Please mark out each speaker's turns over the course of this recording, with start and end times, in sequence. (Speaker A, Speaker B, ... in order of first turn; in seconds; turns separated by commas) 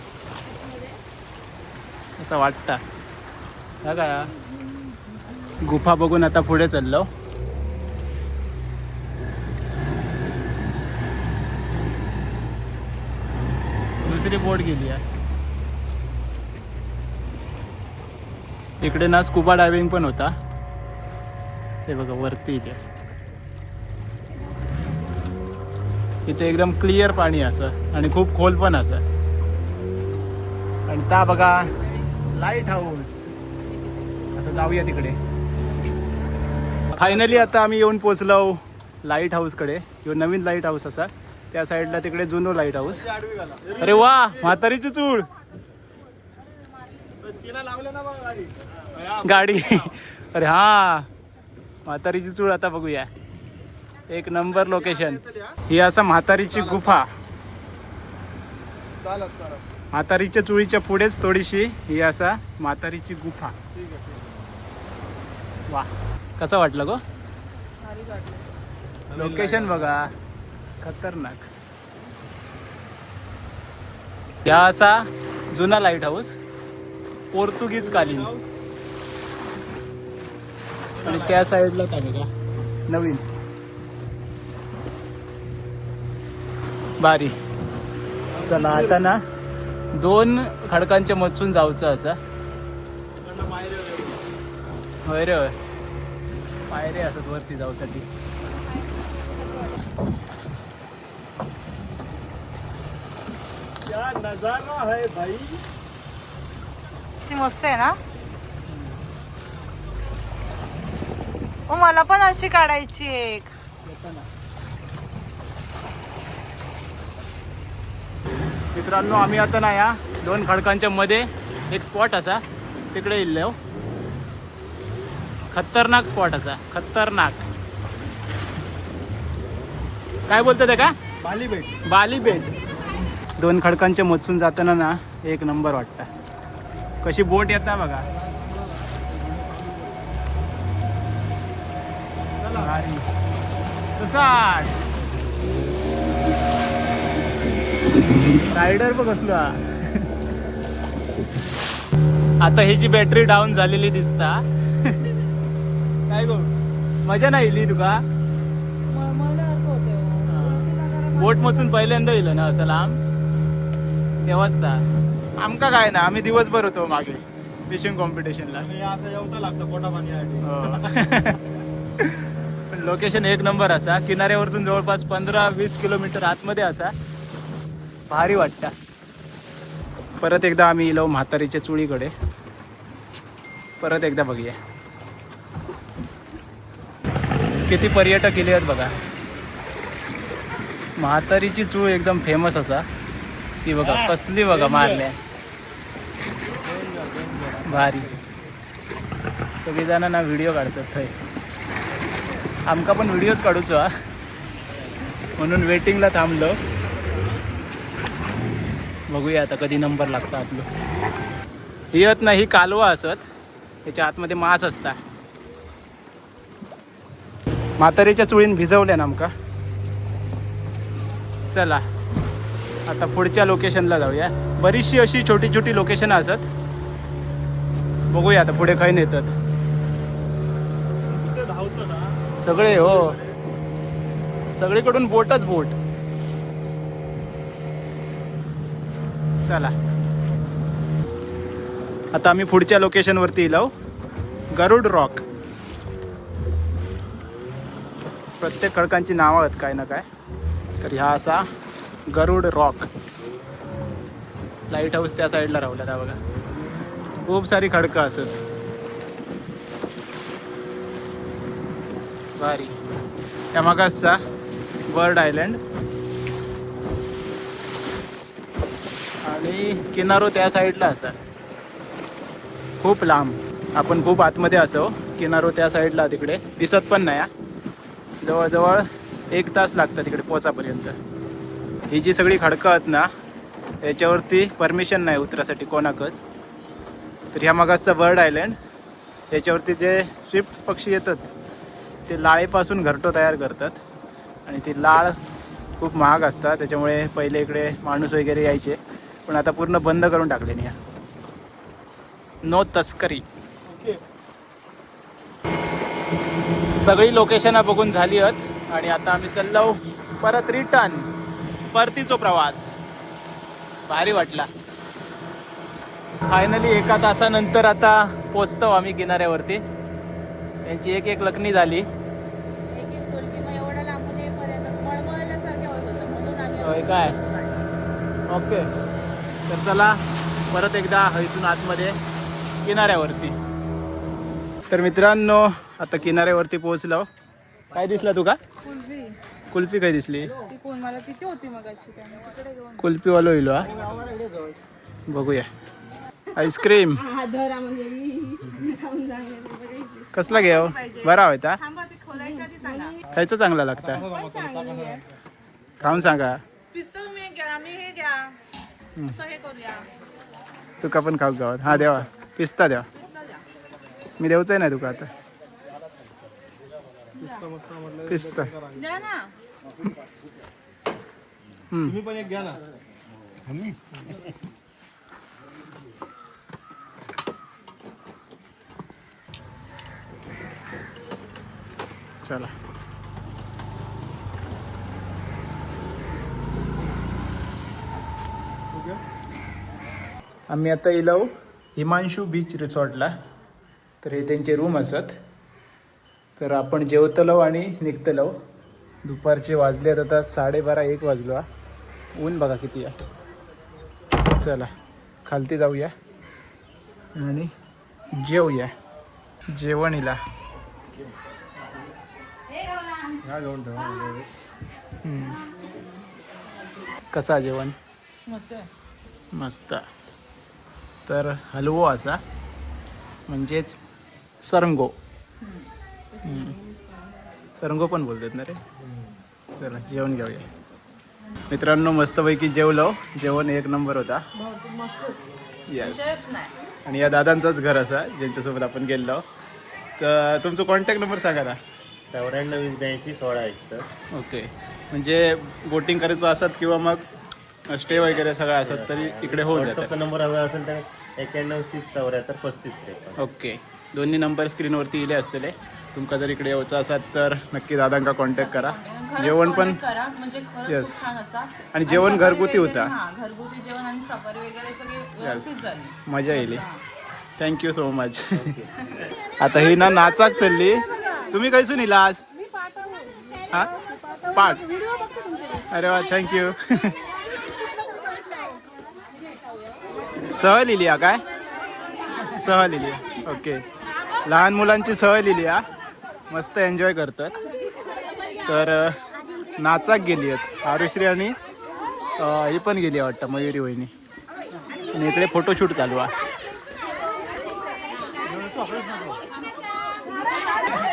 Speaker A: 2.2-2.8, Speaker A: 3.8-4.3, Speaker A: 5.6-7.1, Speaker A: 14.0-15.0, Speaker A: 18.8-20.3, Speaker A: 21.9-22.8, Speaker A: 26.3-29.0, Speaker A: 30.9-31.7, Speaker A: 32.3-33.3, Speaker A: 34.4-35.2, Speaker A: 36.9-43.1, Speaker B: 43.1-43.9, Speaker A: 43.8-45.3, Speaker B: 47.3-49.2, Speaker A: 49.1-51.1, Speaker A: 51.9-53.1, Speaker A: 54.1-57.1, Speaker B: 55.0-55.6, Speaker B: 59.0-59.6, Speaker A: 59.9-63.5, Speaker B: 63.8-64.4, Speaker A: 65.7-67.0, Speaker C: 67.8-68.5, Speaker B: 69.1-70.0, Speaker A: 69.1-70.1, Speaker A: 70.8-71.5, Speaker A: 74.5-76.4, Speaker A: 77.3-78.3, Speaker B: 78.0-78.4, Speaker B: 81.0-81.3, Speaker A: 81.0-82.3, Speaker A: 82.9-83.2, Speaker A: 87.0-87.4, Speaker B: 88.3-89.0, Speaker A: 88.4-89.2, Speaker A: 89.9-92.2, Speaker B: 93.2-94.2, Speaker A: 95.1-95.5, Speaker A: 96.7-98.1, Speaker C: 98.8-99.8, Speaker B: 103.9-105.6, Speaker C: 107.3-108.0, Speaker A: 108.7-109.0, Speaker C: 111.7-113.5, Speaker A: 113.8-114.3, Speaker A: 118.7-123.6, Speaker A: 125.5-127.5, Speaker A: 130.3-130.9, Speaker B: 131.2-131.8, Speaker A: 131.9-132.6, Speaker A: 133.4-136.1, Speaker A: 137.0-138.1, Speaker B: 138.2-140.1, Speaker B: 142.4-142.8, Speaker A: 142.6-143.1, Speaker A: 143.9-144.8, Speaker A: 148.1-150.1, Speaker A: 152.4-155.0, Speaker A: 156.1-156.5, Speaker A: 157.1-158.0, Speaker C: 158.9-162.0, Speaker A: 160.3-163.0, Speaker A: 164.2-164.8, Speaker A: 165.4-168.7, Speaker B: 168.6-170.9, Speaker A: 170.4-171.4, Speaker A: 172.0-176.9, Speaker A: 178.1-178.7, Speaker A: 180.2-182.1, Speaker A: 183.8-184.6, Speaker A: 187.7-188.9, Speaker A: 191.0-192.9, Speaker A: 193.6-195.2, Speaker B: 194.5-195.0, Speaker B: 196.6-198.2, Speaker A: 197.7-198.1, Speaker A: 199.6-201.1, Speaker A: 202.7-203.9, Speaker A: 205.4-206.6, Speaker A: 209.1-210.7, Speaker A: 211.9-213.2, Speaker A: 213.9-215.0, Speaker A: 217.8-219.3, Speaker A: 221.5-221.8, Speaker A: 222.9-226.5, Speaker A: 228.1-229.3, Speaker B: 231.0-232.2, Speaker A: 232.4-233.2, Speaker B: 233.0-233.4, Speaker A: 234.5-235.8, Speaker A: 239.4-239.7, Speaker A: 242.1-243.7, Speaker A: 244.5-245.2, Speaker A: 248.4-250.1, Speaker A: 250.8-251.5, Speaker A: 252.1-252.9, Speaker A: 254.7-256.2, Speaker A: 257.3-258.4, Speaker A: 262.4-262.8, Speaker A: 263.5-264.2, Speaker A: 264.9-265.6, Speaker A: 269.2-271.2, Speaker A: 272.8-277.3, Speaker A: 278.2-281.0, Speaker A: 281.9-283.1, Speaker A: 283.8-286.2, Speaker A: 287.3-288.6, Speaker A: 289.3-291.3, Speaker A: 292.1-293.8, Speaker A: 294.5-295.2, Speaker A: 295.8-300.8, Speaker A: 302.4-303.2, Speaker B: 303.7-304.0, Speaker A: 306.8-311.1, Speaker A: 311.7-312.7, Speaker A: 313.9-314.5, Speaker A: 316.3-319.6, Speaker A: 320.7-321.9, Speaker C: 322.7-327.5, Speaker A: 326.6-327.2, Speaker A: 328.3-328.7, Speaker A: 329.5-332.0, Speaker A: 332.6-333.4, Speaker A: 334.7-337.1, Speaker A: 337.7-338.4, Speaker C: 338.6-339.2, Speaker A: 339.5-340.4, Speaker C: 340.4-342.8, Speaker A: 342.8-343.8, Speaker A: 345.1-345.5, Speaker A: 346.4-347.0, Speaker C: 347.0-353.0, Speaker A: 350.1-351.6, Speaker A: 353.1-354.1, Speaker B: 354.1-355.0, Speaker C: 354.2-355.0, Speaker A: 355.8-356.4, Speaker C: 356.7-358.4, Speaker C: 359.1-359.9, Speaker A: 360.8-362.9, Speaker C: 363.1-363.4, Speaker A: 364.2-365.1, Speaker C: 367.2-367.5, Speaker B: 367.2-368.9, Speaker A: 368.1-368.5, Speaker C: 368.7-369.3, Speaker A: 371.7-372.0, Speaker B: 371.9-372.6, Speaker A: 382.2-382.5, Speaker B: 388.7-389.0, Speaker A: 390.5-393.1, Speaker A: 394.0-395.2, Speaker A: 396.4-398.4, Speaker A: 399.1-401.4, Speaker A: 402.2-403.0, Speaker A: 404.3-404.7, Speaker A: 405.2-405.9, Speaker A: 407.1-407.5, Speaker A: 408.2-408.7, Speaker A: 409.5-410.2, Speaker B: 413.2-414.3, Speaker A: 415.0-415.4, Speaker A: 417.1-417.8, Speaker C: 418.3-418.7, Speaker A: 419.3-419.8, Speaker A: 421.1-422.2, Speaker A: 423.3-423.8, Speaker A: 424.4-424.9, Speaker C: 425.4-425.7, Speaker A: 426.2-426.6, Speaker A: 427.6-428.6, Speaker A: 429.6-430.5, Speaker A: 431.5-434.2, Speaker C: 434.4-435.2, Speaker A: 435.7-436.3, Speaker C: 435.8-436.5, Speaker A: 436.9-439.2, Speaker A: 440.0-441.6, Speaker D: 442.1-443.9, Speaker A: 444.1-447.1, Speaker A: 447.7-450.0, Speaker D: 448.6-453.2, Speaker A: 453.2-459.8, Speaker C: 458.4-466.8, Speaker A: 460.7-461.0, Speaker A: 461.7-462.9, Speaker A: 465.2-465.5, Speaker A: 466.1-466.6, Speaker A: 467.4-468.6, Speaker C: 468.8-469.1, Speaker A: 469.4-472.2, Speaker A: 474.3-474.7, Speaker A: 475.7-477.0, Speaker A: 480.3-481.2, Speaker A: 482.3-483.6, Speaker A: 484.2-485.6, Speaker A: 486.3-487.4, Speaker A: 488.5-489.0, Speaker A: 489.6-491.4, Speaker A: 492.2-493.9, Speaker A: 494.9-496.1, Speaker B: 498.3-499.2